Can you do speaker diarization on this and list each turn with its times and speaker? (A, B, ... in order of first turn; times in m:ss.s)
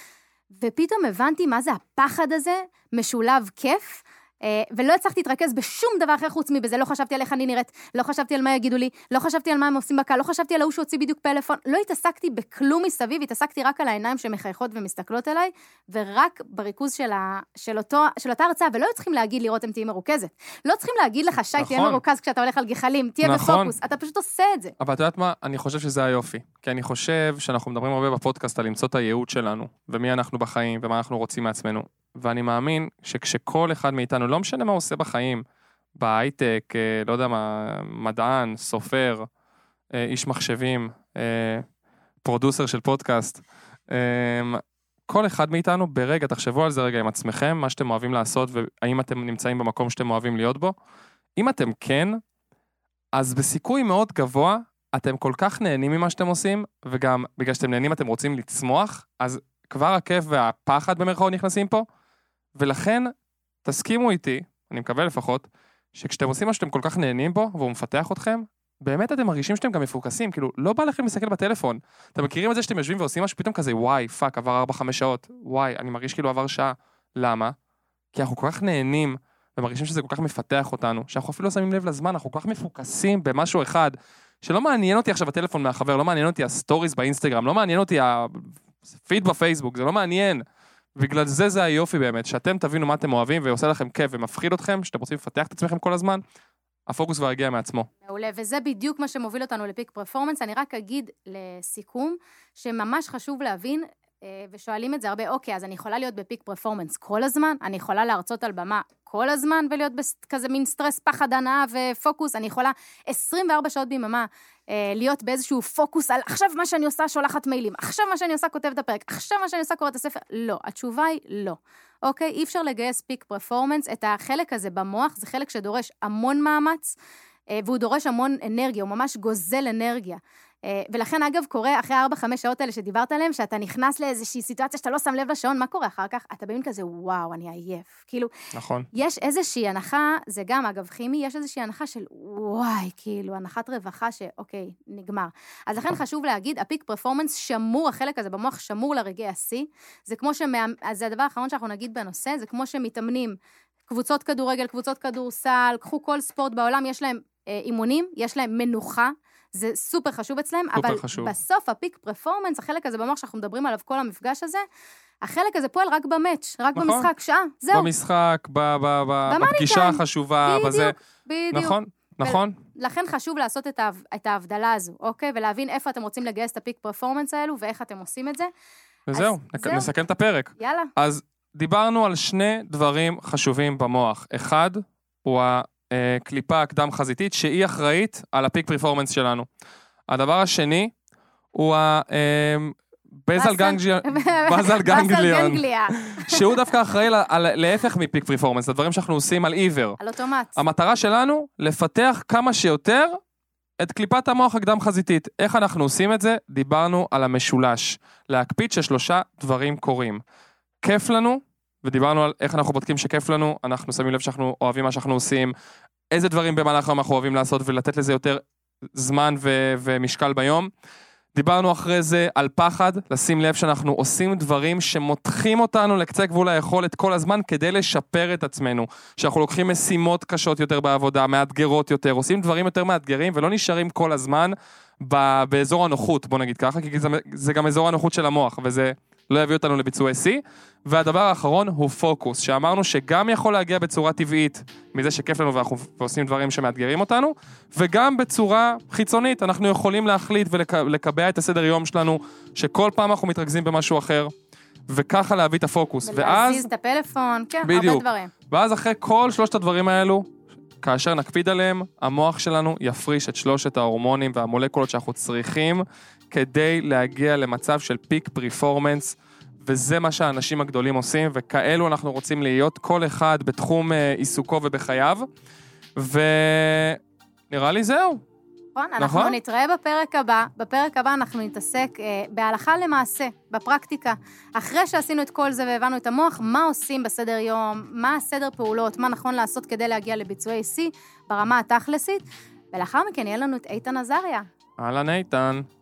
0:00.6-0:24.7 A
0:21.6-0:22.0 B
0:23.2-0:23.7 B
0:24.8-0:35.4 B
0:36.0-0:39.3 B
0:39.9-0:41.6 B
0:42.2-0:50.7 B
0:51.4-0:52.2 B
0:53.1-1:01.8 B
1:02.6-1:03.1 B
1:03.6-1:17.5 B
1:18.1-1:30.4 B
1:31.0-1:36.2 B
1:36.9-1:37.9 B
1:38.0-2:07.0 A
2:07.6-2:18.3 A
2:18.5-2:18.9 B
2:18.9-2:33.4 A
2:33.9-2:44.6 A
2:40.7-2:41.3 B
2:45.2-2:47.9 A
2:46.7-2:47.1 B
2:47.7-2:50.9 B
2:49.3-2:58.5 A
2:51.5-2:52.6 B
2:59.1-3:09.5 B
2:59.1-2:59.9 A
3:00.6-3:00.9 A
3:10.1-3:10.9 B
3:11.5-3:20.0 B
3:13.3-3:16.6 A
3:20.0-3:20.6 A
3:20.6-3:23.2 B
3:23.8-3:30.2 B
3:30.8-3:35.5 B
3:36.1-3:38.4 B
3:38.9-3:40.7 B
3:41.3-4:14.3 B
4:14.9-4:16.7 B
4:16.0-4:18.3 A
4:17.6-4:35.2 B
4:36.0-4:37.0 B
4:37.5-4:38.2 B
4:38.8-4:54.5 A
4:39.0-4:39.4 B
4:54.8-4:55.6 B